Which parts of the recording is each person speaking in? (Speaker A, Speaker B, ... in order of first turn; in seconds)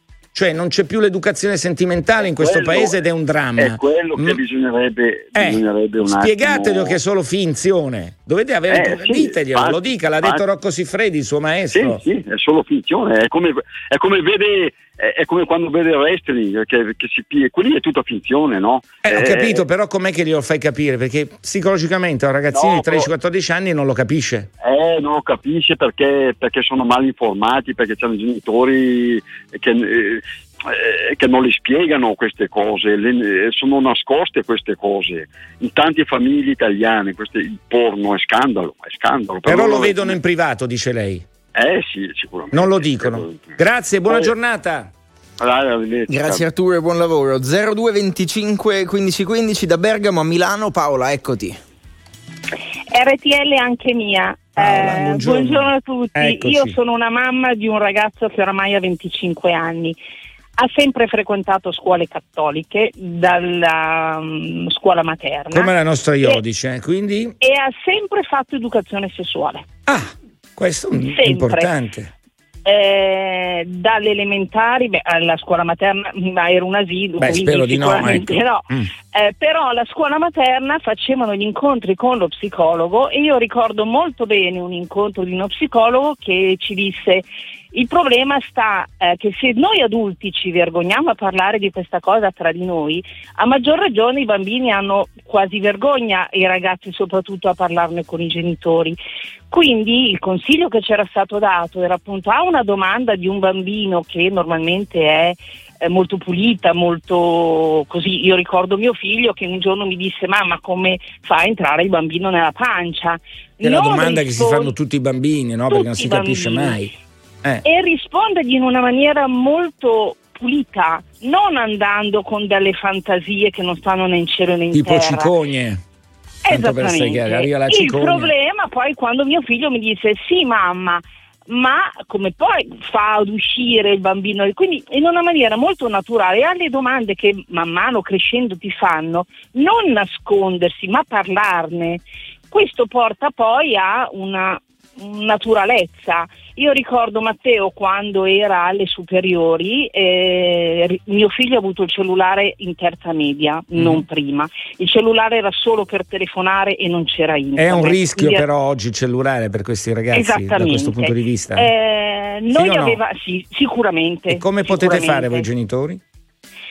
Speaker A: 0.3-4.4, 5.3-12.0, 19.0-24.5, 39.4-41.2, 42.5-44.9, 54.6-56.8, 65.5-67.3, 69.8-72.1, 77.2-78.9, 113.6-116.9, 124.7-125.8, 126.5-128.3, 153.8-154.0, 157.6-161.7, 162.5-163.0, 164.3-166.0
Speaker B: 2.2-3.0, 3.5-7.0, 8.7-10.4, 11.7-19.6, 22.5-23.1, 24.6-40.2, 41.5-44.3, 45.4-46.5
Speaker C: 46.1-51.6
Speaker D: 52.9-60.0, 60.6-66.4, 67.4-69.7, 71.1-71.7, 72.6-99.0, 99.5-114.7, 115.7-116.8, 117.6-125.3, 126.4-158.4, 160.1-165.5